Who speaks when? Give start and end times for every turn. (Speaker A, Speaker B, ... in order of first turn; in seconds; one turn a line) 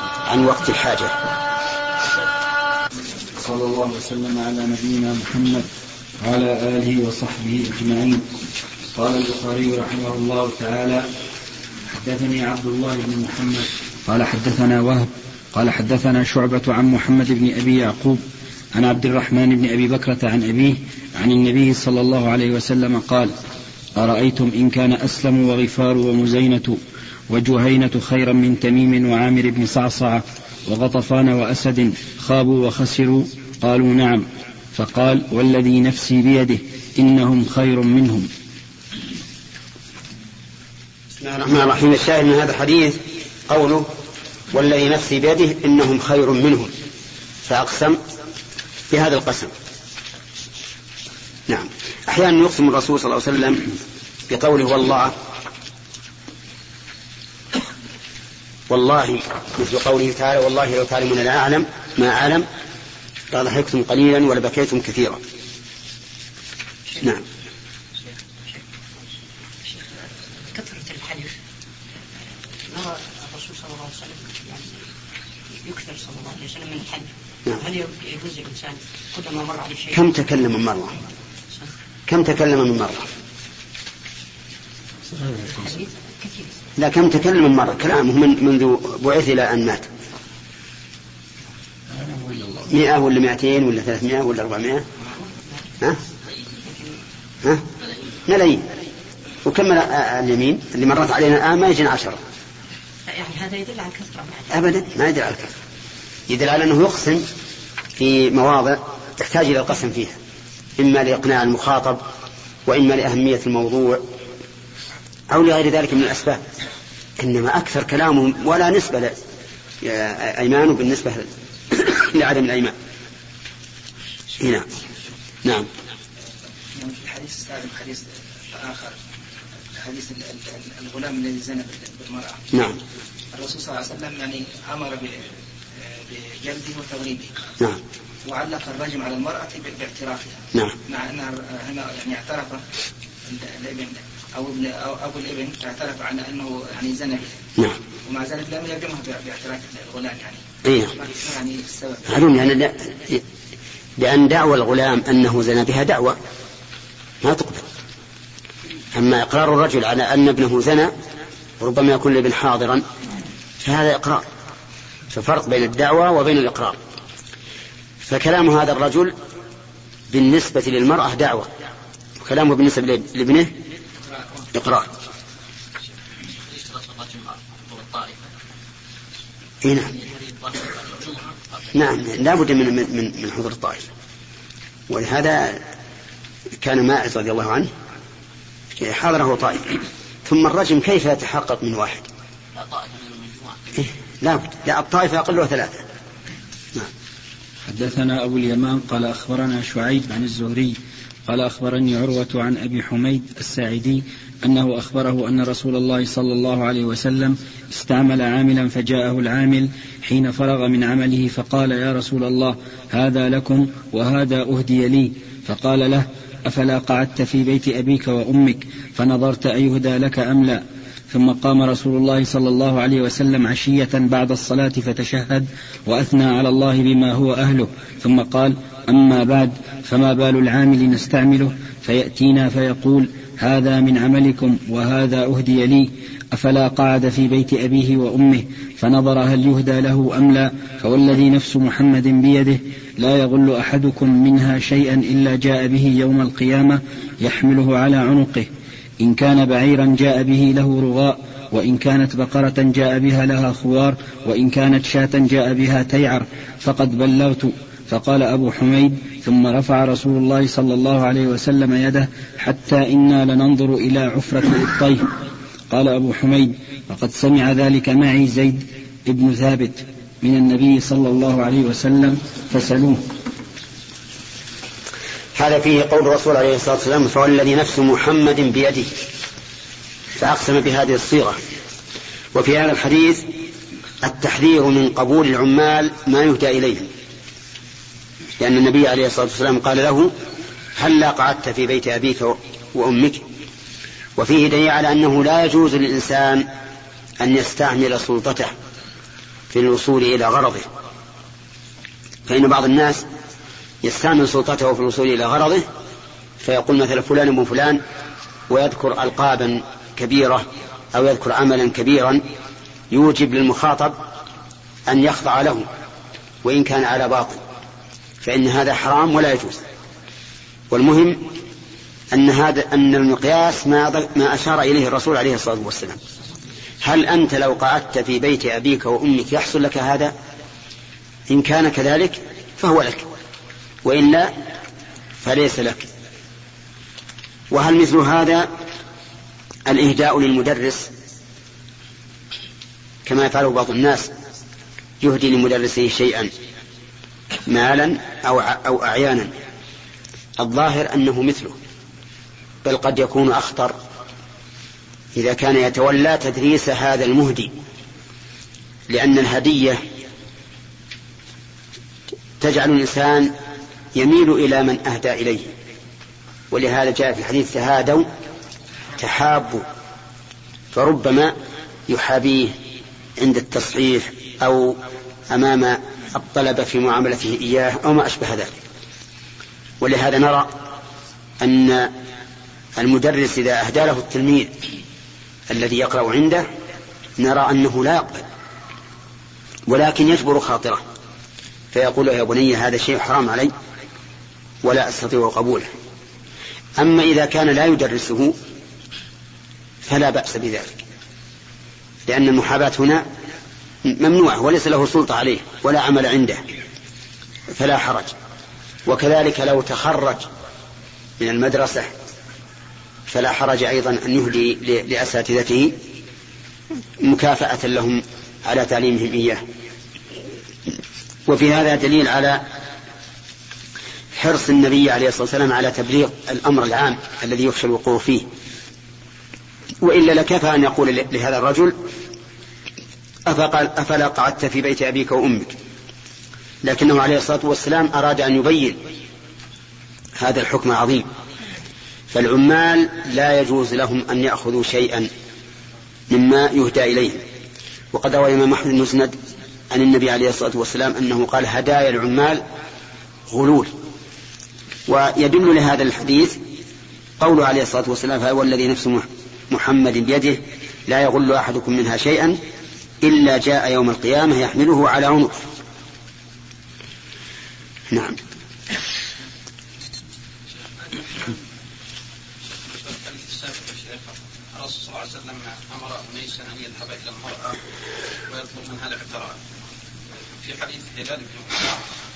Speaker A: 0.2-1.2
Speaker B: 3.3-5.7
Speaker B: 6.2-8.3
Speaker B: 8.9-11.1
Speaker B: 11.9-18.2
Speaker B: 18.7-23.3
Speaker B: 23.9-38.3
Speaker A: 41.2-43.9
Speaker A: 44.5-46.7
Speaker A: 47.5-48.0
Speaker A: 48.9-49.5
Speaker A: 51.5-53.7
Speaker A: 54.3-55.1
Speaker A: 58.7-62.5
Speaker A: 63.3-65.2
Speaker C: 69.7-69.9
Speaker C: 70.5-71.3
Speaker C: 72.7-74.8
Speaker C: 75.6-80.0
Speaker A: 79.9-81.0
Speaker A: 82.1-83.1
Speaker B: 85.1-85.7
Speaker C: 85.5-86.5
Speaker A: 86.8-89.9
Speaker B: 91.9-92.7
Speaker A: 92.7-94.8
Speaker C: 96.5-96.9
Speaker A: 98.3-98.7
Speaker A: 99.4-102.2
Speaker C: 103.1-104.5
Speaker A: 104.5-105.5
Speaker A: 106.3-107.3
Speaker A: 108.0-110.2
Speaker A: 110.8-112.0
Speaker A: 112.7-114.0
Speaker A: 115.3-116.4
Speaker A: 117.2-119.2
Speaker A: 119.8-122.7
Speaker A: 124.4-124.7
Speaker D: 126.7-129.0
Speaker D: 129.7-132.4
Speaker D: 133.3-135.3
Speaker D: 135.8-137.4
Speaker D: 138.2-142.6
Speaker D: 143.3-147.4
Speaker D: 148.1-152.3
Speaker A: 150.7-150.9
Speaker A: 152.1-153.2
Speaker A: 154.0-156.2
Speaker A: 157.2-157.7
Speaker A: 158.9-160.9
Speaker A: 161.6-162.8
Speaker A: 163.6-164.2
Speaker A: 165.1-166.8
Speaker A: 168.0-169.1
Speaker A: 170.1-171.5
Speaker A: 172.2-173.5
Speaker A: 174.5-174.9
Speaker E: 176.4-178.3
Speaker A: 179.6-179.9
Speaker E: 179.9-181.7
Speaker A: 181.7-183.9
Speaker A: 184.9-185.6
Speaker A: 186.6-187.7
Speaker A: 188.8-192.1
Speaker E: 192.6-193.6
Speaker A: 193.8-195.8
Speaker B: 197.7-265.1
Speaker B: 265.7-273.1
Speaker A: 275.4-278.9
Speaker A: 280.2-281.4
Speaker A: 282.3-283.3
Speaker A: 284.0-286.9
Speaker A: 288.4-290.1
Speaker A: 290.8-293.2
Speaker A: 294.2-296.5
Speaker A: 297.2-298.5
Speaker A: 299.5-300.7
Speaker A: 302.3-303.1
Speaker A: 303.8-305.7
Speaker A: 306.4-307.8
Speaker A: 308.5-312.2
Speaker A: 312.9-314.0
Speaker A: 314.9-315.7
Speaker A: 316.4-317.4
Speaker A: 318.2-319.6
Speaker A: 320.7-321.2
Speaker A: 322.1-326.0
Speaker A: 326.8-330.1
Speaker A: 331.3-333.1
Speaker A: 333.9-334.3
Speaker A: 335.2-335.9
Speaker A: 337.5-338.5
Speaker A: 339.7-340.9
Speaker A: 343.1-344.1
Speaker A: 345.0-346.3
Speaker A: 347.5-349.3
Speaker A: 350.4-351.6
Speaker A: 352.6-353.7
Speaker A: 355.1-357.5
Speaker A: 358.9-359.8
Speaker A: 362.4-363.3
Speaker A: 363.9-365.5
Speaker A: 366.5-368.1
Speaker A: 369.0-369.6
Speaker A: 370.7-371.3
Speaker A: 371.9-372.5
Speaker A: 373.2-374.8
Speaker A: 375.3-378.6
Speaker A: 379.8-380.6
Speaker A: 381.4-381.9
Speaker A: 382.8-384.5
Speaker A: 385.5-386.5
Speaker A: 387.2-388.2
Speaker A: 389.7-390.8
Speaker A: 391.7-393.5
Speaker A: 394.6-395.7
Speaker A: 396.8-398.4
Speaker A: 399.9-400.7
Speaker A: 402.1-403.0
Speaker A: 403.9-406.4
Speaker A: 407.5-408.1
Speaker A: 408.9-410.3
Speaker A: 411.2-411.9
Speaker A: 413.1-415.7
Speaker A: 417.0-419.4
Speaker A: 421.3-422.4
Speaker A: 424.2-428.3
Speaker A: 429.8-431.8
Speaker A: 433.3-435.5
Speaker A: 436.6-438.8
Speaker A: 440.2-441.1
Speaker A: 442.1-445.1
Speaker A: 446.1-447.2
Speaker A: 447.9-449.1
Speaker A: 449.7-452.4
Speaker A: 453.3-453.7
Speaker A: 454.9-456.4
Speaker A: 457.2-462.4
Speaker A: 463.0-465.5
Speaker A: 467.9-468.2
Speaker D: 470.9-471.3
Speaker E: 472.7-477.6
Speaker E: 478.3-479.4
Speaker E: 480.4-481.8